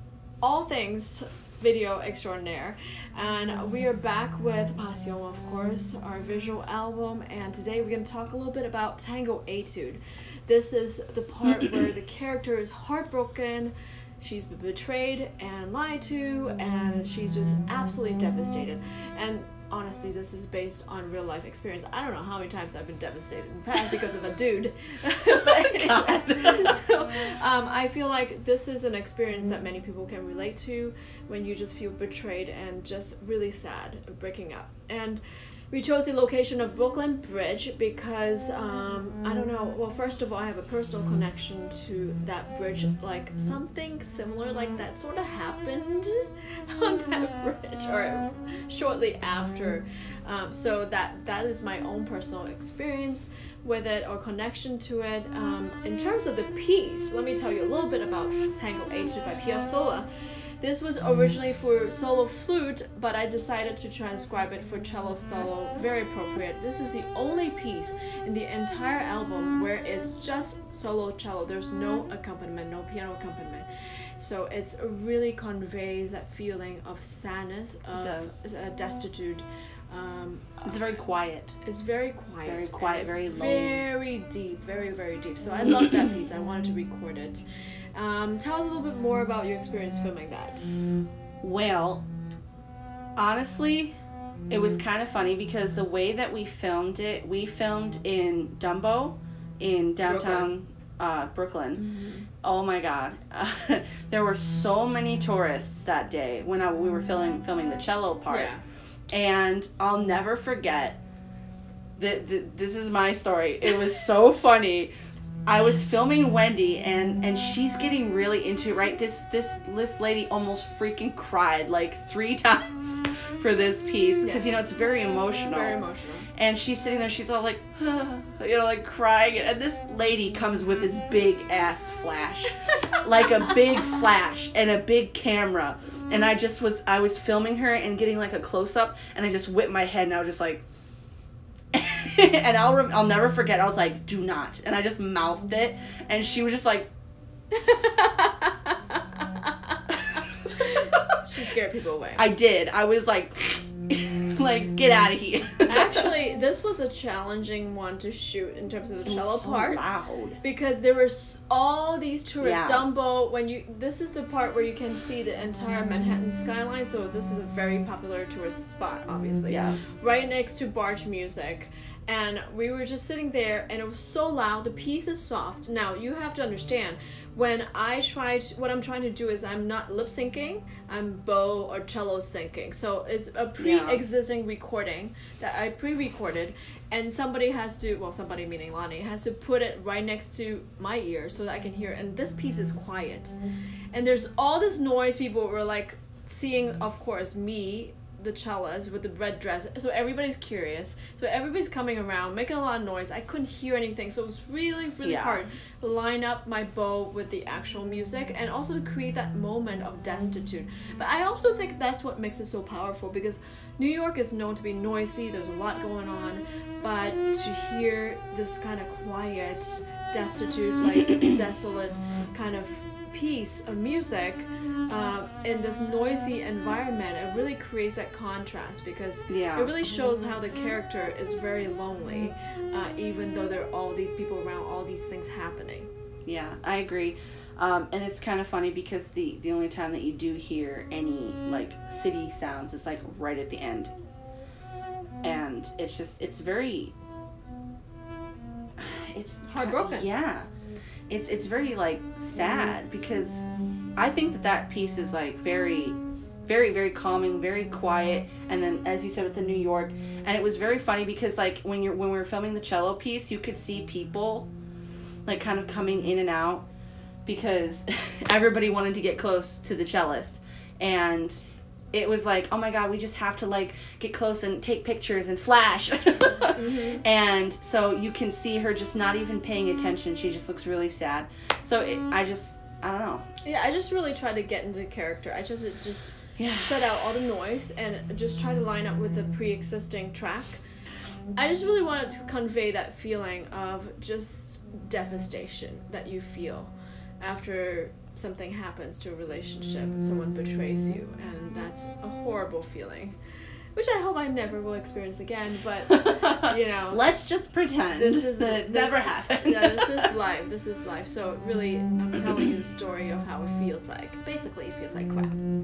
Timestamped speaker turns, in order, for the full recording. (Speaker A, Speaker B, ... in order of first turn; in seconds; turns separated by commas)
Speaker A: 0.4-60.1, Speaker B: 25.3-26.8, Speaker A: 60.6-73.7, Speaker A: 74.2-80.8, Speaker B: 77.9-78.4, Speaker B: 80.6-81.6, Speaker A: 81.6-87.4, Speaker B: 82.4-83.8, Speaker A: 87.9-90.7, Speaker B: 91.4-92.0, Speaker B: 93.2-93.9, Speaker B: 94.5-101.8, Speaker A: 100.0-100.5, Speaker A: 101.8-102.3, Speaker B: 102.4-108.5, Speaker A: 108.3-108.6, Speaker B: 109.1-111.0, Speaker B: 112.0-114.9, Speaker B: 115.5-125.8, Speaker A: 124.2-124.5, Speaker A: 125.5-126.3, Speaker B: 126.3-140.6, Speaker B: 141.7-146.9, Speaker A: 147.5-152.3, Speaker B: 150.8-151.2, Speaker B: 152.2-156.1, Speaker A: 155.7-159.8, Speaker B: 159.0-160.4, Speaker A: 160.4-193.3, Speaker B: 162.4-162.9, Speaker B: 169.5-169.9, Speaker B: 183.6-184.0, Speaker A: 193.9-235.9, Speaker B: 205.0-205.5, Speaker B: 229.3-229.7, Speaker B: 236.2-243.9, Speaker B: 245.2-246.9, Speaker B: 248.8-250.5, Speaker A: 249.5-250.1, Speaker B: 251.1-253.4, Speaker B: 254.0-264.5, Speaker B: 265.2-266.6, Speaker B: 267.2-271.4, Speaker B: 271.9-283.2, Speaker A: 276.6-277.0, Speaker A: 283.4-290.6, Speaker B: 286.4-287.0, Speaker A: 291.4-303.2, Speaker A: 303.7-307.0, Speaker B: 306.4-310.1, Speaker A: 307.9-315.4